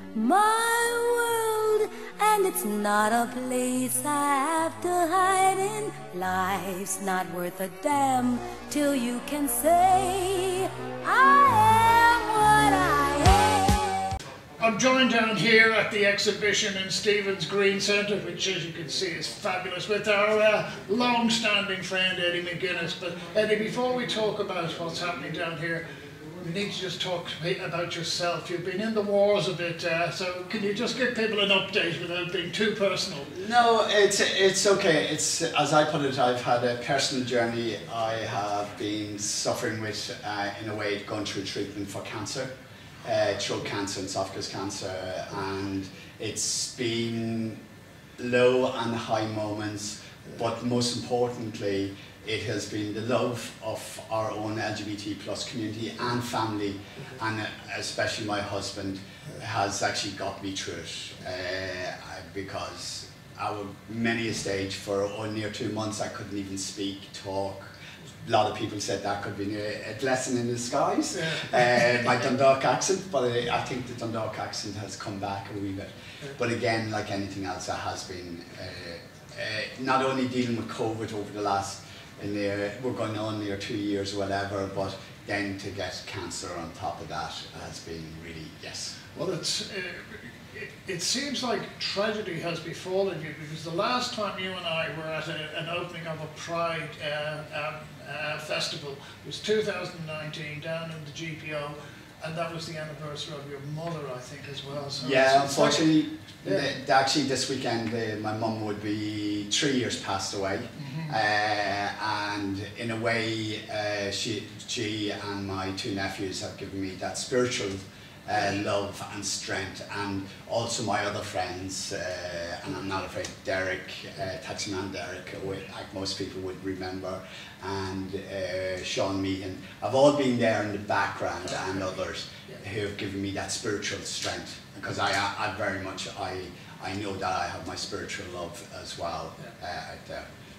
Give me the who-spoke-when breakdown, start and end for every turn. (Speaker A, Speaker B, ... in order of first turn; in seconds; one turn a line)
Speaker A: 0.1-14.1
Speaker B: 14.6-25.8
Speaker B: 26.4-33.3
Speaker C: 33.3-42.5
Speaker C: 43.0-47.6
Speaker C: 48.2-88.9
Speaker B: 71.2-71.6
Speaker B: 89.1-105.9
Speaker C: 105.0-140.3
Speaker B: 106.4-106.7
Speaker B: 110.8-111.1
Speaker B: 131.5-131.9